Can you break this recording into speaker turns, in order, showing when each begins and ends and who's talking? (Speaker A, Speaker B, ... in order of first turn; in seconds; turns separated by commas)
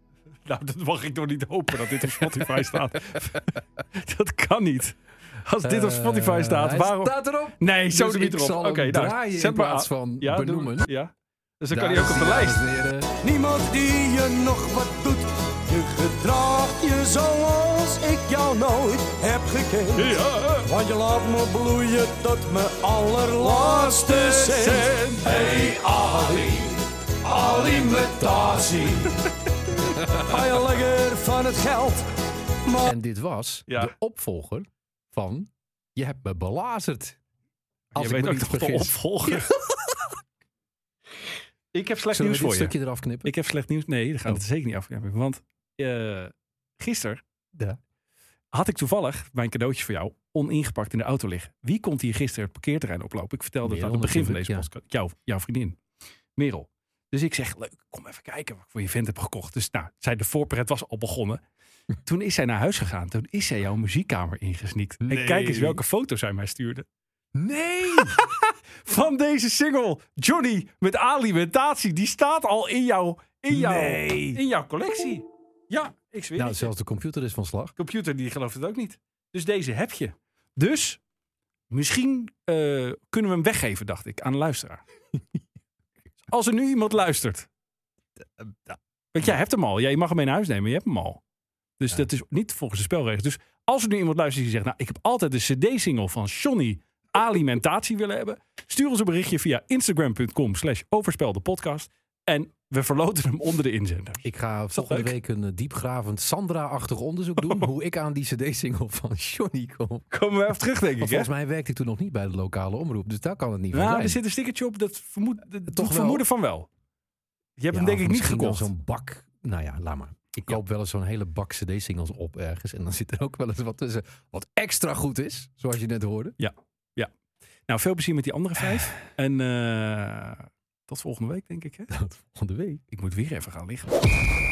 Speaker A: 0.5-12.6, Speaker B: 2.0-3.4, Speaker B: 5.6-10.9, Speaker B: 11.7-13.1, Speaker C: 13.2-26.7, Speaker A: 20.0-20.7, Speaker A: 24.1-25.3, Speaker C: 27.2-29.1, Speaker C: 30.1-32.1, Speaker C: 32.7-32.9, Speaker B: 32.8-37.2, Speaker A: 38.0-39.6, Speaker B: 38.0-39.9, Speaker A: 41.7-42.7, Speaker B: 42.1-43.3, Speaker A: 43.2-47.2, Speaker A: 48.5-55.8, Speaker B: 53.6-54.7, Speaker A: 56.4-61.4, Speaker A: 62.0-66.9, Speaker B: 65.0-65.8, Speaker B: 67.3-68.2, Speaker A: 67.9-76.7, Speaker B: 73.5-74.4, Speaker B: 76.4-77.7, Speaker A: 77.8-81.0, Speaker A: 81.7-84.8, Speaker A: 86.3-87.5, Speaker B: 88.4-88.8, Speaker A: 89.1-91.2, Speaker A: 91.8-105.1, Speaker B: 104.2-110.1, Speaker A: 110.1-111.3, Speaker B: 111.0-114.2, Speaker A: 113.7-116.7, Speaker B: 115.7-116.2, Speaker A: 117.6-118.7, Speaker B: 117.7-126.4, Speaker A: 126.4-127.1, Speaker A: 127.7-131.9, Speaker B: 131.9-132.8, Speaker A: 132.9-133.9